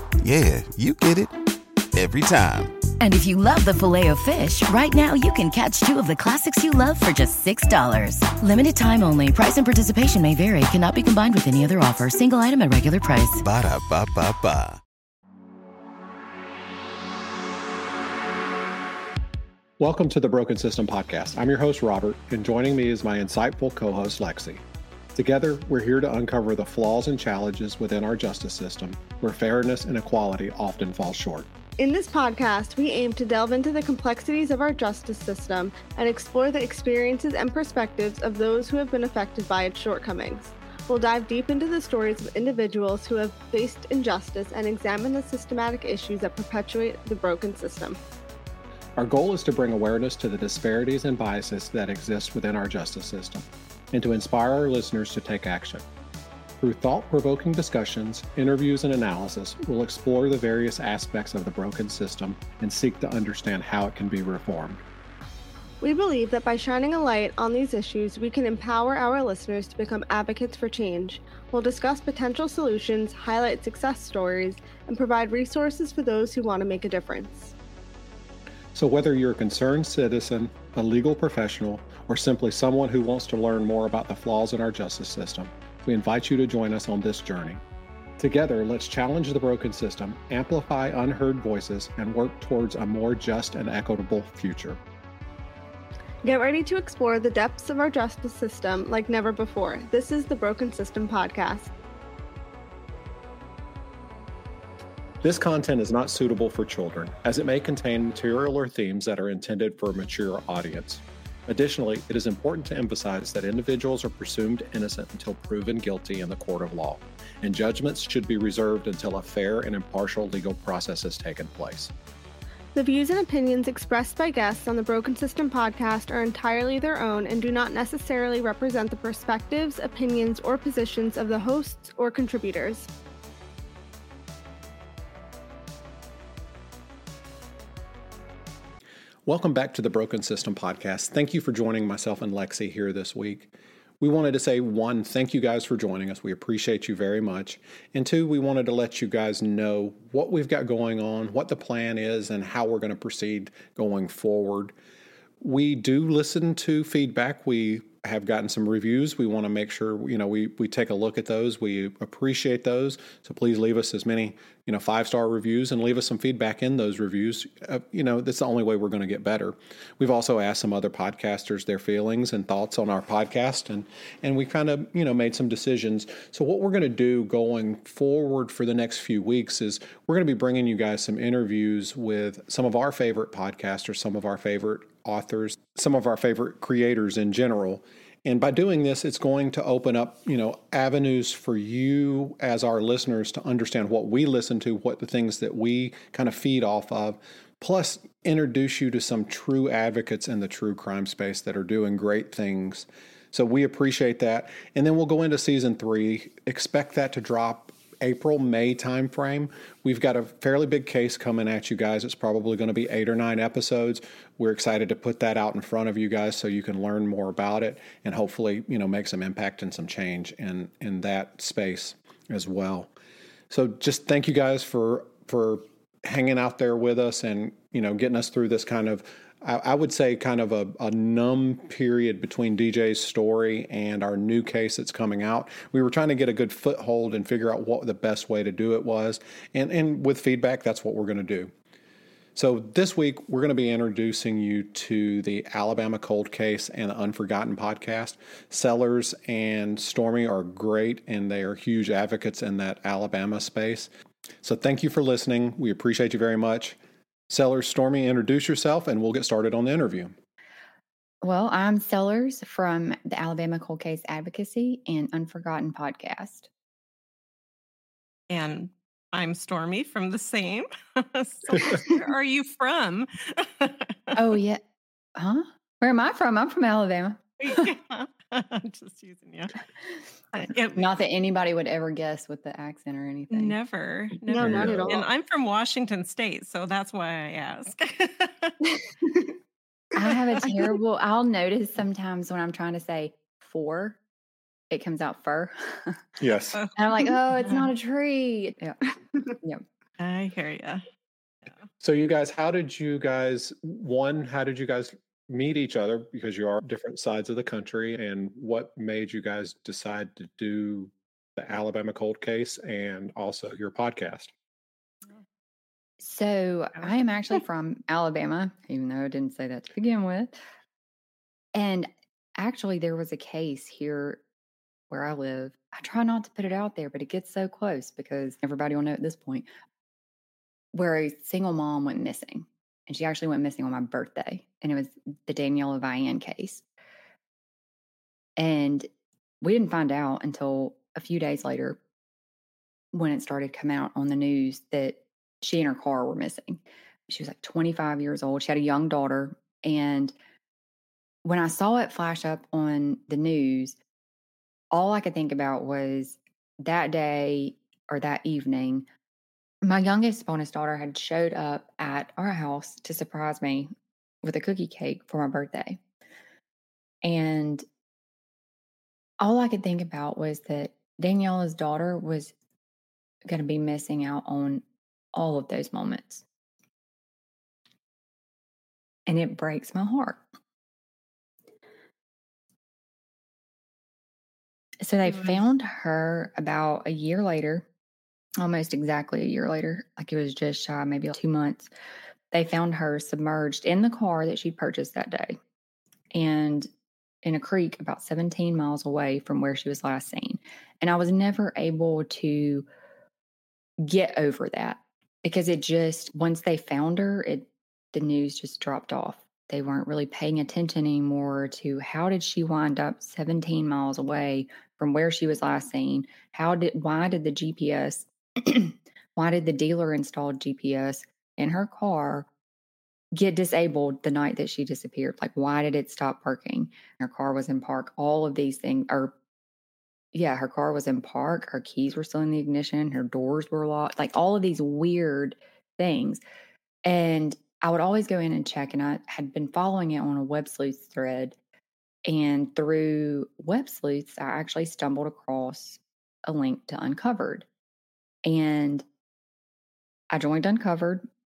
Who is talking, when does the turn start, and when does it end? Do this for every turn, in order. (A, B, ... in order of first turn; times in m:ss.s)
0:00.2-0:01.3 A
0:01.9-0:02.8 A
0:03.0-0:13.4 B
0:13.4-0:14.8 A
0:19.8-0:24.6 C
0:25.2-0:31.5 C
0:31.8-0:48.0 D
0:49.0-0:55.8 C
0:56.6-1:04.8 C
1:05.8-1:17.5 D
1:18.8-1:27.6 C
1:28.2-1:34.8 C
1:36.2-1:41.7 D
1:45.2-2:01.9 C
2:02.8-2:12.9 D
2:19.3-2:34.7 C
2:35.4-3:42.9 C
3:43.5-4:01.5 C
4:02.4-4:13.9 C
4:14.4-4:16.8 C
4:17.3-4:20.2 C
4:21.2-4:26.5 E
4:28.3-4:34.3 F
4:34.2-4:34.6 E
4:35.2-4:37.7 E
4:37.4-4:39.6 F
4:40.3-4:40.9 F
4:40.7-4:43.6 E
4:43.3-4:48.6 F
4:44.3-4:45.0 D
4:44.4-4:45.0 C
4:50.0-4:54.0 E
4:54.7-4:56.0 E
4:56.2-4:56.6 C
4:56.8-4:58.8 E
5:00.0-5:00.8 F
5:01.8-5:14.3 C
5:16.0-5:20.4 E
5:21.6-5:24.2 E
5:24.9-5:29.5 E
5:30.7-5:36.6 E
5:38.4-5:38.9 E
5:39.4-5:41.8 E
5:42.9-5:50.2 E
5:51.2-5:53.8 E
5:54.7-5:58.9 E
5:59.6-6:03.7 E
6:04.2-6:05.8 E
6:07.0-6:07.7 E
6:09.2-6:12.3 E
6:13.3-6:16.2 E
6:19.1-6:20.2 E
6:24.8-6:27.7 E
6:28.4-6:31.7 E
6:32.3-6:35.4 E
6:36.1-6:36.7 E
6:37.2-6:42.6 E
6:43.8-7:02.3 E
7:03.2-7:09.1 E
7:10.1-7:16.2 E
7:16.8-7:21.4 E
7:22.1-7:27.5 E
7:28.2-7:28.8 E
7:30.1-7:31.1 E